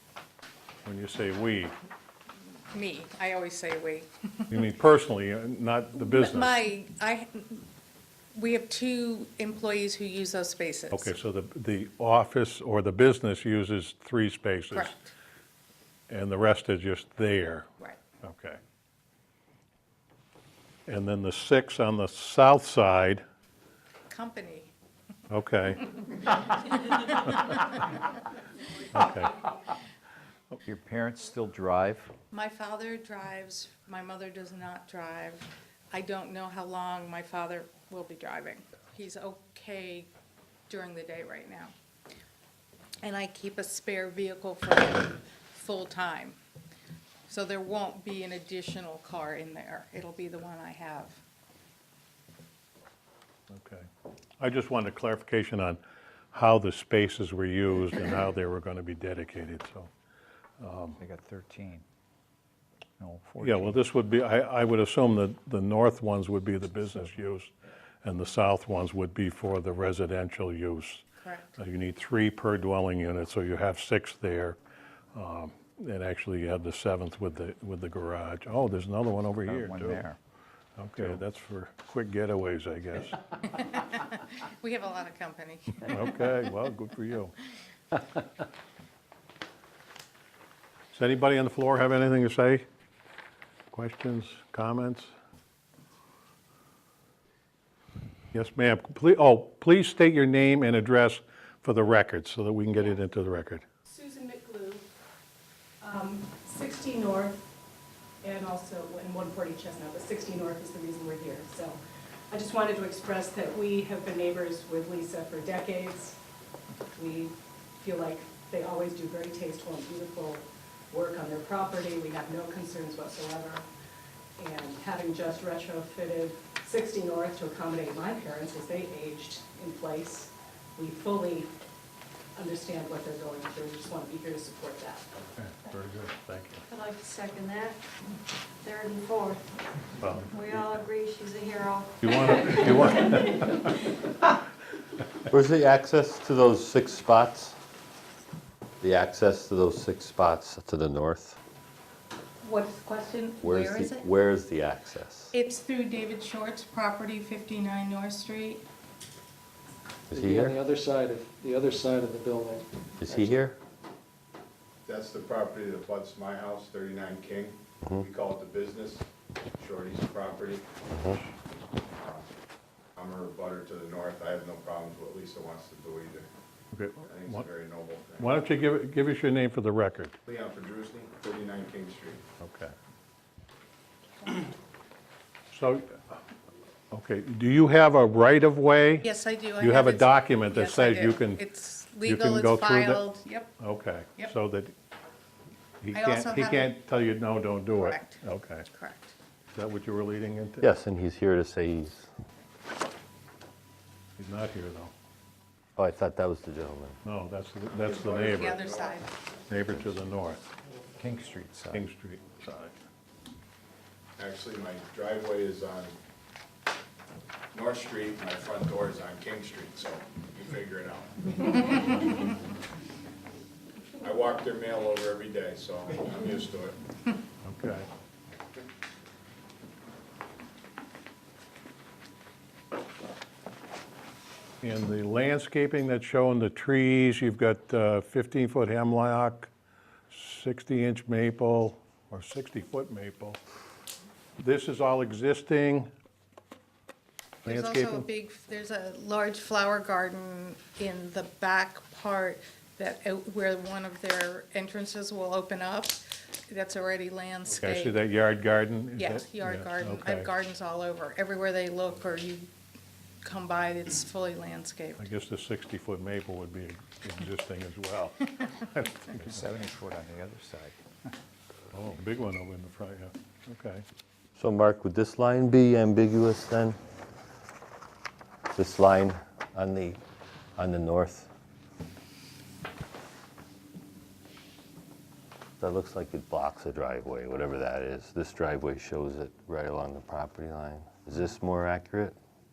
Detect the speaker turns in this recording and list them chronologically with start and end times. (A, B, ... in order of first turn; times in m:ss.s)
0:00.8-0:01.7 A
0:02.7-0:04.1 B
0:04.5-0:06.6 A
0:06.0-0:07.6 B
0:08.3-0:11.1 B
0:10.9-0:14.9 A
0:14.7-0:15.1 B
0:16.1-0:17.7 A
0:18.2-0:18.6 A
0:20.9-0:23.2 A
0:24.1-0:24.7 B
0:25.3-0:25.9 A
0:26.9-0:27.6 B
0:28.9-0:29.4 A
0:30.6-0:32.1 C
0:32.3-0:40.1 B
0:40.7-0:41.7 B
0:43.0-0:46.4 B
0:47.3-0:51.2 B
0:53.5-0:53.9 A
0:54.4-0:55.8 A
0:56.3-0:59.9 A
1:00.6-1:01.0 A
1:00.9-1:01.8 C
1:03.0-1:03.8 C
1:03.4-1:07.5 A
1:08.0-1:11.0 A
1:11.2-1:11.5 B
1:11.6-1:14.6 A
1:15.1-1:20.0 A
1:19.4-1:20.2 C
1:20.8-1:23.2 A
1:23.9-1:26.0 B
1:25.8-1:27.4 A
1:30.9-1:32.6 A
1:33.7-1:35.1 A
1:38.3-1:43.6 A
1:43.8-1:44.8 D
1:45.8-1:47.5 D
1:48.2-1:51.8 D
1:52.3-1:56.2 D
1:57.0-2:03.6 D
2:04.4-2:11.5 D
2:12.4-2:15.1 D
2:15.3-2:16.6 A
2:16.7-2:17.8 E
2:18.6-2:19.5 E
2:20.0-2:20.3 A
2:20.3-2:23.4 E
2:22.0-2:23.7 A
2:25.3-2:27.6 F
2:28.8-2:31.4 F
2:32.4-2:34.0 B
2:33.4-2:35.3 F
2:35.3-2:38.6 B
2:40.1-2:40.6 F
2:40.2-2:42.6 G
2:43.0-2:43.6 F
2:44.8-2:49.0 H
2:49.6-2:50.6 H
2:50.9-2:51.2 F
2:51.9-2:52.3 H
2:53.0-2:56.3 H
2:56.7-2:57.4 A
2:57.0-2:58.4 H
2:58.2-3:00.2 A
3:00.2-3:02.2 H
3:02.4-3:02.7 A
3:05.5-3:06.0 A
3:06.9-3:09.1 A
3:09.0-3:13.5 B
3:09.6-3:11.4 A
3:12.0-3:13.0 A
3:13.6-3:14.7 A
3:15.8-3:18.6 A
3:15.9-3:16.7 B
3:17.7-3:18.2 B
3:18.7-3:19.1 B
3:19.5-3:20.7 A
3:20.6-3:22.1 F
3:24.2-3:24.9 A
3:25.8-3:27.0 F
3:27.0-3:28.6 A
3:27.7-3:29.1 H
3:28.1-3:29.1 B
3:29.5-3:30.4 A
3:31.0-3:31.8 C
3:31.7-3:32.7 A
3:34.2-3:35.9 H
3:37.5-3:42.1 H
3:44.0-3:46.8 H
3:47.4-3:47.9 A
3:54.6-3:59.5 A
4:00.1-4:03.4 A
4:04.4-4:05.9 A
4:07.4-4:18.0 B
4:07.4-4:08.1 A
4:17.5-4:20.3 A
4:19.0-4:22.5 B
4:23.2-4:25.0 B
4:25.0-4:29.4 A
4:29.1-4:31.1 C
4:31.7-4:33.8 A
4:34.3-4:36.8 F
4:38.5-4:40.0 F
4:40.6-4:41.3 F
4:45.6-4:52.2 F